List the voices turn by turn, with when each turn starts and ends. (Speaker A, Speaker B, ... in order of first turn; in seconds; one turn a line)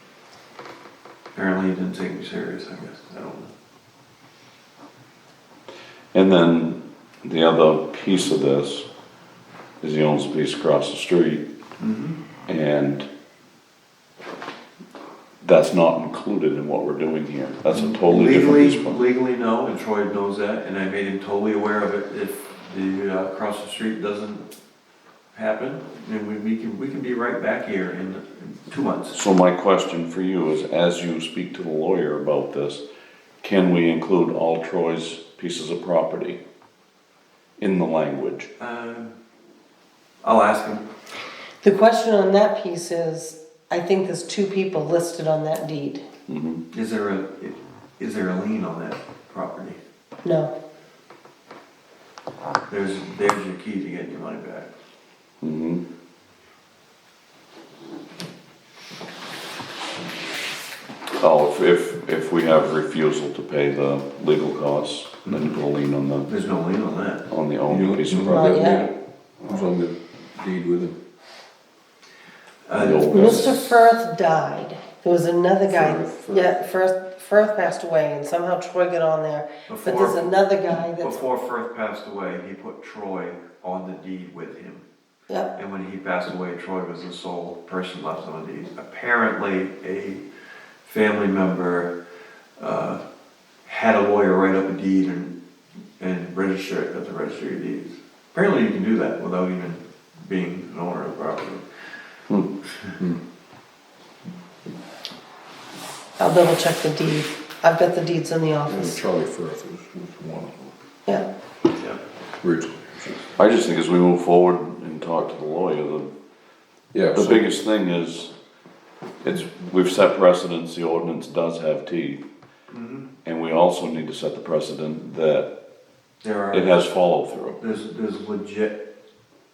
Speaker A: 1.3-3.5
Speaker B: 6.1-8.9
Speaker B: 9.8-11.4
Speaker A: 11.8-12.2
Speaker B: 12.5-13.1
Speaker B: 15.4-19.0
Speaker A: 17.7-24.5
Speaker A: 25.3-29.2
Speaker B: 29.1-32.8
Speaker B: 33.4-36.4
Speaker B: 37.6-38.5
Speaker A: 38.6-39.1
Speaker A: 40.2-40.9
Speaker C: 41.6-46.0
Speaker B: 46.3-46.6
Speaker A: 46.7-49.8
Speaker C: 50.2-50.5
Speaker A: 52.7-54.7
Speaker B: 55.4-55.8
Speaker B: 61.2-66.3
Speaker A: 65.2-65.6
Speaker A: 66.3-67.2
Speaker B: 67.3-68.8
Speaker D: 67.7-71.0
Speaker C: 68.2-68.9
Speaker A: 72.7-73.9
Speaker B: 72.8-73.5
Speaker C: 73.1-81.2
Speaker D: 75.7-76.5
Speaker A: 79.7-80.3
Speaker A: 80.9-84.8
Speaker A: 85.5-90.2
Speaker A: 90.8-91.9
Speaker A: 92.6-93.0
Speaker A: 93.6-95.3
Speaker A: 96.0-101.9
Speaker C: 106.2-109.0
Speaker D: 108.7-110.7
Speaker D: 112.4-113.4
Speaker B: 113.4-116.1
Speaker D: 116.9-117.4
Speaker B: 117.1-118.3
Speaker B: 119.2-122.2
Speaker A: 122.7-123.1
Speaker B: 123.2-125.5
Speaker A: 126.2-126.9
Speaker B: 126.5-127.6
Speaker A: 127.6-128.8